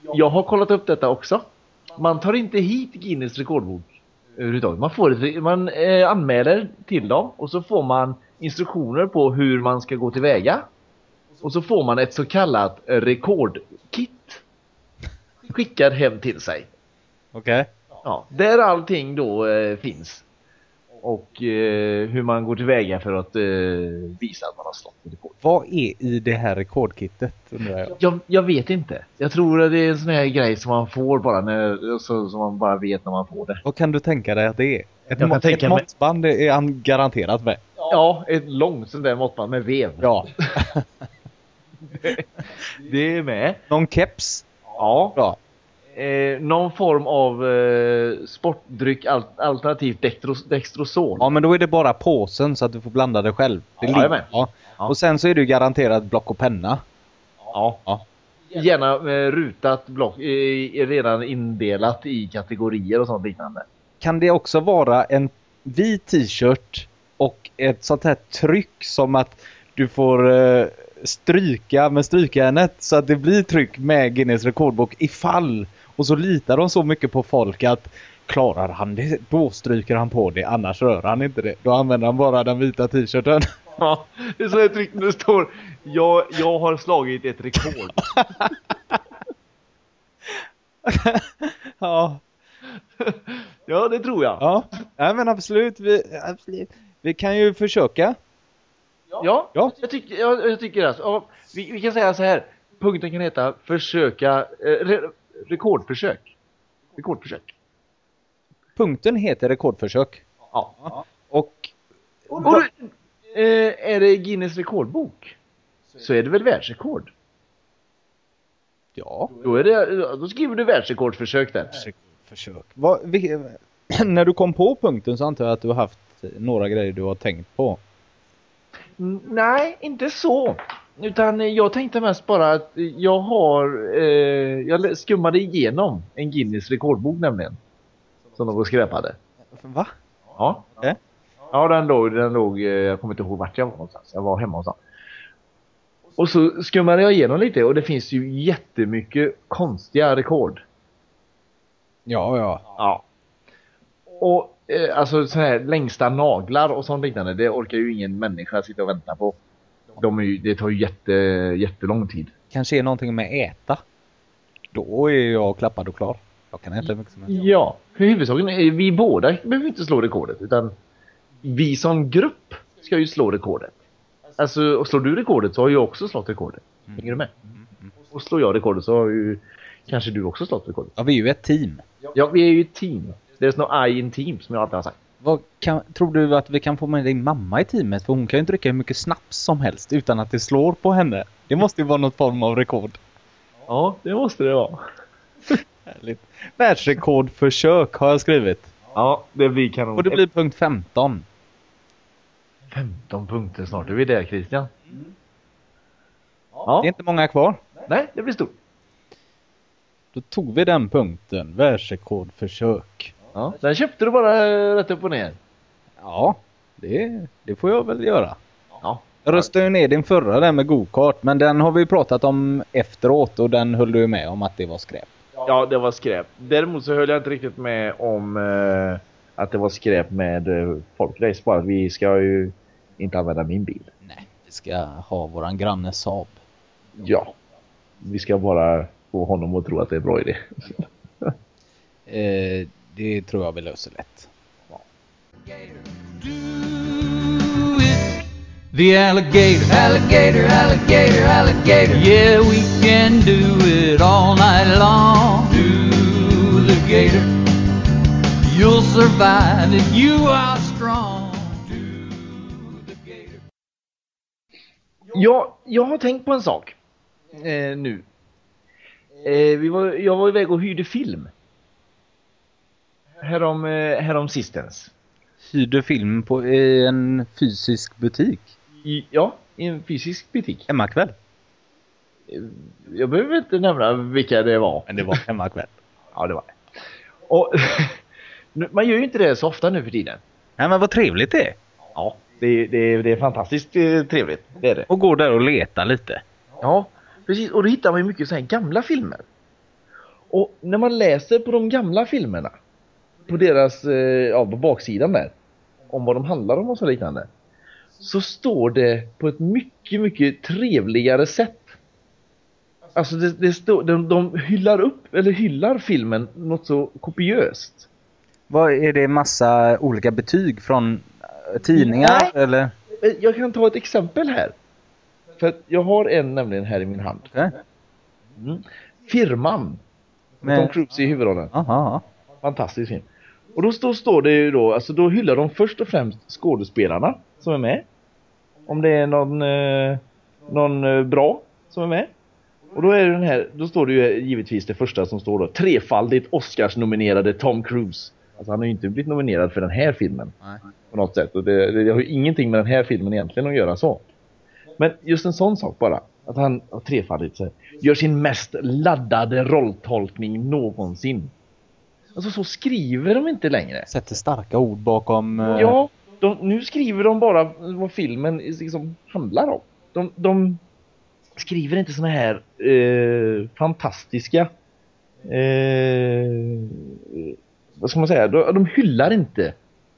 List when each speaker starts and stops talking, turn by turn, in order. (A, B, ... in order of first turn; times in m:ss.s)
0:00.1-0:10.6 A
0:11.4-0:14.4 A
0:15.5-0:16.7 A
0:17.3-0:17.7 B
0:18.0-0:20.2 A
0:21.0-0:25.4 A
0:25.4-0:27.9 B
0:27.9-0:33.6 A
0:33.6-0:37.6 B
0:35.1-0:35.8 A
0:37.8-0:40.6 A
0:40.0-0:40.9 B
0:42.0-0:43.6 A
0:43.7-0:44.4 B
0:44.8-0:45.2 A
0:45.9-0:51.3 A
0:51.2-0:56.8 B
0:53.8-0:54.9 A
0:57.5-0:57.8 A
0:58.5-1:03.6 A
1:04.0-1:23.5 B
1:23.8-1:28.5 A
1:28.1-1:28.5 B
1:30.3-1:32.2 B
1:33.0-1:34.4 A
1:34.4-1:38.2 B
1:39.2-1:46.3 A
1:47.0-1:47.5 A
1:48.8-1:50.2 B
1:50.8-1:51.7 B
1:52.3-1:52.6 B
1:52.4-1:52.7 A
1:53.3-1:55.3 A
1:56.0-1:57.1 A
1:59.0-1:59.3 B
1:59.4-2:01.8 A
2:01.7-2:07.8 B
2:09.0-2:17.6 A
2:18.4-2:19.2 A
2:19.5-2:19.9 B
2:20.4-2:20.8 A
2:21.5-2:24.8 A
2:26.2-2:30.6 A
2:32.1-2:32.6 B
2:32.8-2:33.0 A
2:34.2-2:39.4 A
2:40.0-2:42.3 A
2:42.5-2:43.8 B
2:44.7-2:47.3 B
2:47.3-2:50.7 A
2:51.4-2:53.8 A
2:54.4-2:57.4 A
2:57.6-2:57.9 B
2:58.1-3:00.9 A
3:01.0-3:01.8 B
3:02.1-3:05.0 A
3:05.2-3:13.0 B
3:13.7-3:14.8 A
3:15.9-3:18.7 B
3:18.9-3:20.2 A
3:20.0-3:21.2 B
3:22.7-3:24.7 A
3:26.6-3:26.9 A
3:26.8-3:27.6 B
3:27.8-3:28.6 A
3:30.1-3:33.1 B
3:33.3-3:35.4 A
3:36.0-3:38.4 B
3:38.8-3:39.4 A
3:39.2-3:45.1 B
3:45.4-3:53.9 A
3:54.0-3:56.4 B
3:57.0-3:57.3 A
3:58.0-4:01.3 A
4:02.1-4:04.3 B
4:05.5-4:17.5 C
4:18.4-4:23.4 C
4:25.1-4:26.8 A
4:27.3-4:28.1 A
4:29.2-4:31.3 A
4:33.2-4:34.9 A
4:35.4-4:38.5 B
4:38.8-4:40.7 A
4:40.7-4:41.1 B
4:42.3-4:45.2 A
4:44.9-4:45.7 B
4:46.1-4:46.5 A
4:47.3-4:48.0 A
4:48.6-4:50.2 A
4:50.6-4:51.6 B
4:51.9-4:54.9 A
4:54.9-4:56.2 B
4:56.6-4:59.2 A
5:00.3-5:02.5 A
5:03.3-5:05.3 A
5:05.9-5:07.3 A
5:08.0-5:11.8 A
5:12.9-5:17.9 A
5:18.5-5:22.7 B
5:21.7-5:22.3 A
5:23.0-5:24.6 A
5:25.4-5:27.2 A
5:27.2-5:27.5 B
5:28.4-5:29.8 A
5:30.4-5:31.5 A
5:30.4-5:30.7 B
5:31.5-5:32.0 B
5:32.4-5:37.8 A
5:38.7-5:42.1 A
5:42.7-5:50.3 A
5:50.9-5:54.0 A
5:54.8-6:01.3 A
6:02.2-6:03.9 A
6:03.9-6:05.8 B
6:05.5-6:10.6 A
6:11.4-6:14.5 A
6:15.2-6:19.6 A